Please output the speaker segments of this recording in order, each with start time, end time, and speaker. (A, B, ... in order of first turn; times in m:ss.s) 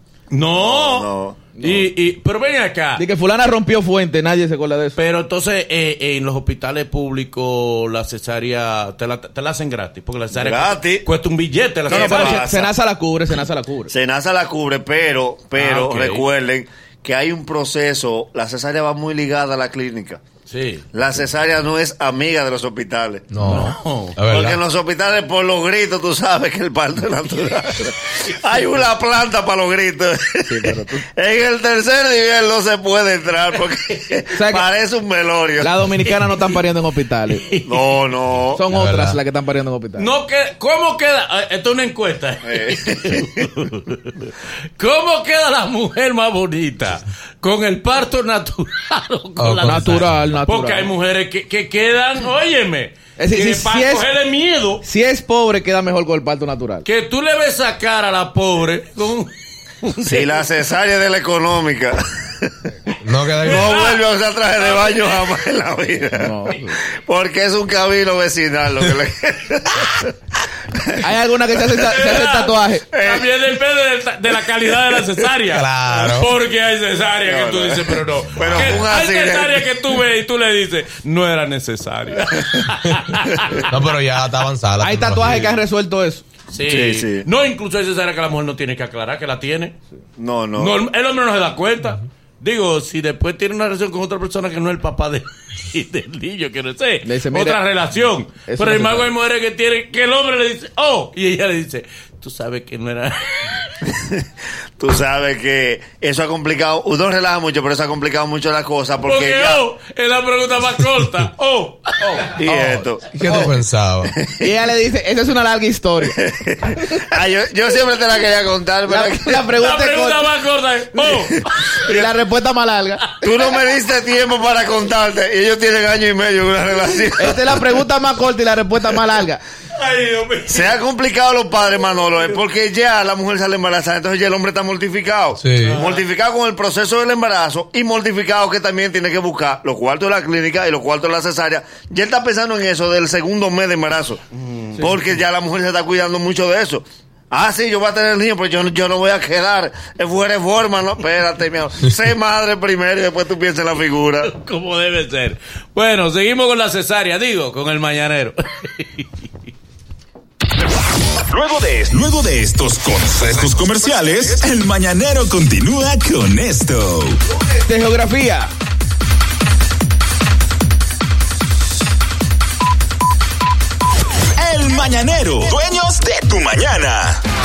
0:00.3-0:03.0 A
0:00.6-0:01.4 B
0:01.6-0:01.9 C
0:03.0-0:05.0 C
0:04.9-0:12.5 A
0:10.3-0:11.0 B
0:11.8-0:12.7 B
0:11.9-0:13.9 C
0:13.9-0:20.2 B
0:15.6-0:16.3 A
0:20.5-0:20.8 A
0:20.9-0:23.3 B
0:23.3-0:24.6 D
0:23.4-0:24.2 A
0:24.3-0:35.8 B
0:30.5-0:31.0 C
0:34.3-0:34.7 C
0:35.6-0:37.4 C
0:36.0-0:36.4 A
0:37.3-0:37.8 A
0:37.6-0:38.6 B
0:38.5-0:40.1 C
0:38.7-0:39.2 D
0:40.0-0:54.8 A
0:42.4-0:43.4 B
0:49.4-0:50.1 D
0:49.6-0:50.9 C
0:53.2-0:54.1 C
0:54.8-0:56.8 C
0:56.8-0:59.3 A
0:59.8-1:00.3 A
1:00.0-1:02.7 B
1:03.0-1:03.7 D
1:03.4-1:10.1 B
1:03.4-1:04.0 A
1:04.6-1:05.3 A
1:06.1-1:06.8 C
1:11.0-1:12.9 C
1:11.8-1:23.9 A
1:12.9-1:13.3 B
1:15.5-1:16.3 D
1:17.2-1:19.8 B
1:23.7-1:25.5 D
1:24.8-1:26.2 C
1:26.5-1:29.8 A
1:26.7-1:27.3 B
1:30.2-1:30.7 B
1:30.6-1:43.7 A
1:37.0-1:37.6 C
1:38.5-1:39.1 C
1:44.8-1:49.6 B
1:49.0-1:52.3 A
1:52.0-1:53.6 C
1:52.3-1:53.1 B
1:53.1-1:54.1 D
1:54.2-1:54.5 B
1:54.4-1:56.2 C
1:56.0-1:59.8 B
1:58.8-2:00.3 C
1:59.5-2:01.9 A
2:00.9-2:01.2 C
2:01.9-2:03.0 C
2:03.2-2:07.8 B
2:07.2-2:09.4 C
2:09.7-2:10.8 A
2:10.5-2:24.2 B
2:15.4-2:15.7 D
2:15.6-2:16.0 A
2:24.3-2:24.9 A
2:24.8-2:34.3 B
2:34.2-2:39.3 A
2:41.3-2:47.2 E
2:47.4-2:48.5 C
2:54.4-2:57.2 E